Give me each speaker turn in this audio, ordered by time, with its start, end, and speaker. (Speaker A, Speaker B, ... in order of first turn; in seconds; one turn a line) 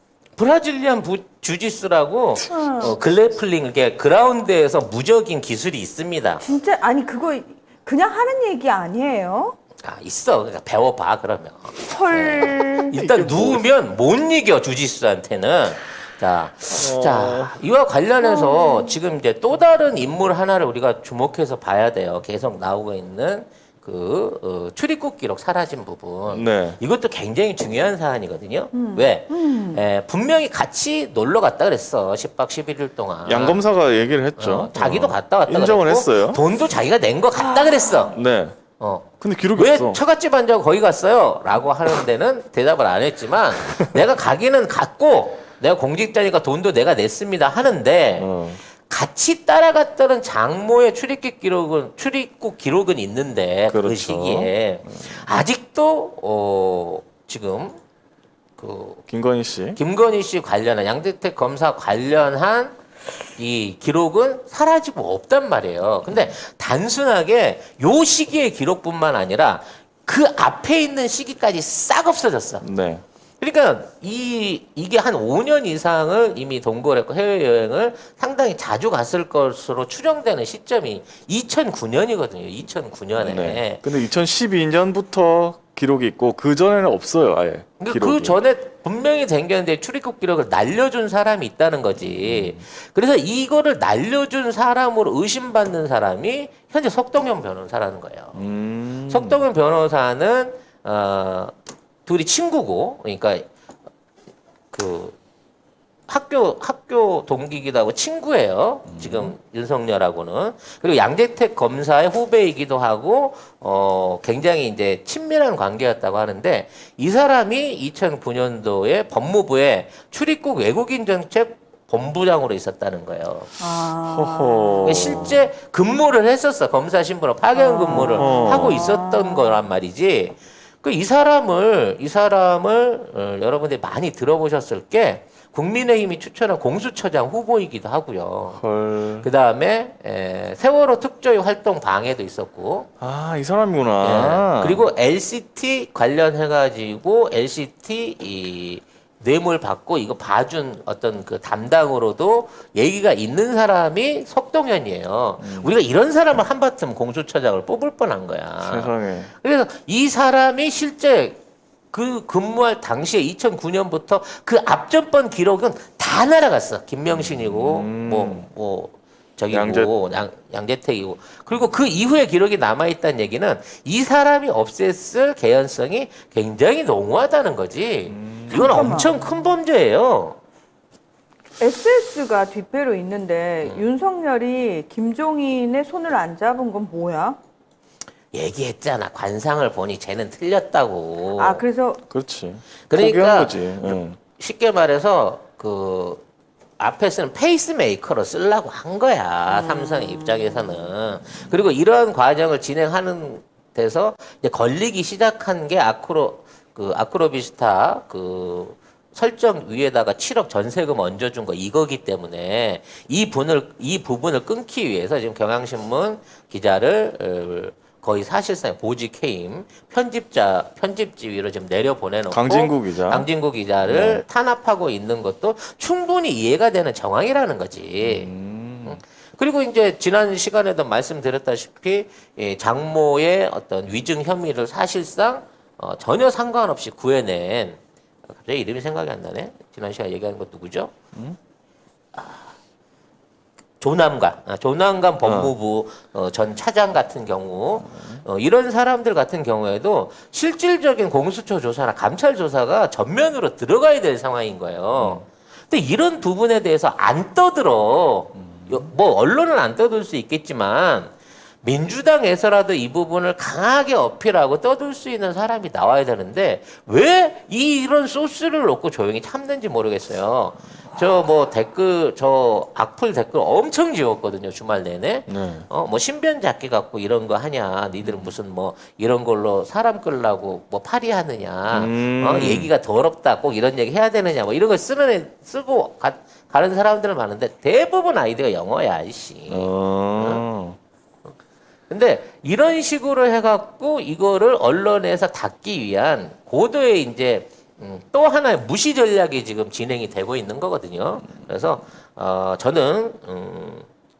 Speaker A: 0.4-6.4
Speaker B: 2.5-3.0
Speaker B: 6.4-9.6
Speaker A: 9.8-33.6
Speaker B: 11.8-12.9
Speaker C: 12.9-13.7
Speaker C: 16.7-17.6
Speaker B: 18.2-19.0
Speaker C: 26.3-26.8
Speaker B: 28.7-29.8
Speaker C: 33.2-36.4
Speaker A: 34.4-38.1
Speaker B: 37.4-38.1
Speaker C: 38.1-38.6
Speaker A: 38.8-48.3
Speaker C: 39.2-40.0
Speaker C: 48.2-48.6
Speaker A: 48.9-57.8
Speaker C: 53.7-55.2
Speaker A: 58.6-59.0
Speaker C: 59.1-59.8
Speaker A: 59.7-62.7
Speaker A: 63.4-72.6
Speaker C: 72.6-73.0
Speaker A: 73.4-83.8
Speaker C: 83.2-88.4
Speaker A: 87.8-98.4
Speaker C: 92.0-92.6
Speaker C: 98.3-99.4
Speaker A: 99.1-101.5
Speaker A: 102.0-103.5
Speaker A: 104.7-105.2
Speaker A: 106.1-123.5
Speaker C: 108.8-109.3
Speaker B: 123.6-124.9
Speaker C: 124.0-125.4
Speaker A: 124.8-138.6
Speaker B: 127.5-129.6
Speaker C: 127.9-128.9
Speaker C: 138.6-139.2
Speaker A: 139.2-142.9
Speaker C: 143.0-144.8
Speaker A: 144.0-161.4
Speaker C: 155.4-155.7
Speaker C: 158.7-159.3
Speaker A: 161.9-180.4
Speaker C: 167.1-168.5
Speaker C: 169.5-169.9
Speaker C: 178.1-179.1
Speaker B: 178.5-179.1
Speaker B: 181.6-187.4
Speaker A: 188.3-191.6
Speaker B: 191.3-192.0
Speaker C: 192.1-194.2
Speaker A: 192.9-196.2
Speaker A: 196.8-228.3
Speaker B: 199.5-200.8
Speaker C: 222.3-223.3
Speaker C: 223.8-224.2
Speaker C: 228.0-229.0
Speaker A: 228.8-240.9
Speaker A: 242.1-242.4
Speaker A: 243.8-290.4
Speaker C: 245.2-245.5
Speaker C: 247.8-248.2
Speaker C: 255.0-255.2
Speaker C: 258.6-258.8
Speaker C: 275.3-275.7
Speaker C: 278.0-278.3
Speaker C: 281.7-282.7
Speaker C: 289.5-290.8
Speaker A: 291.9-303.9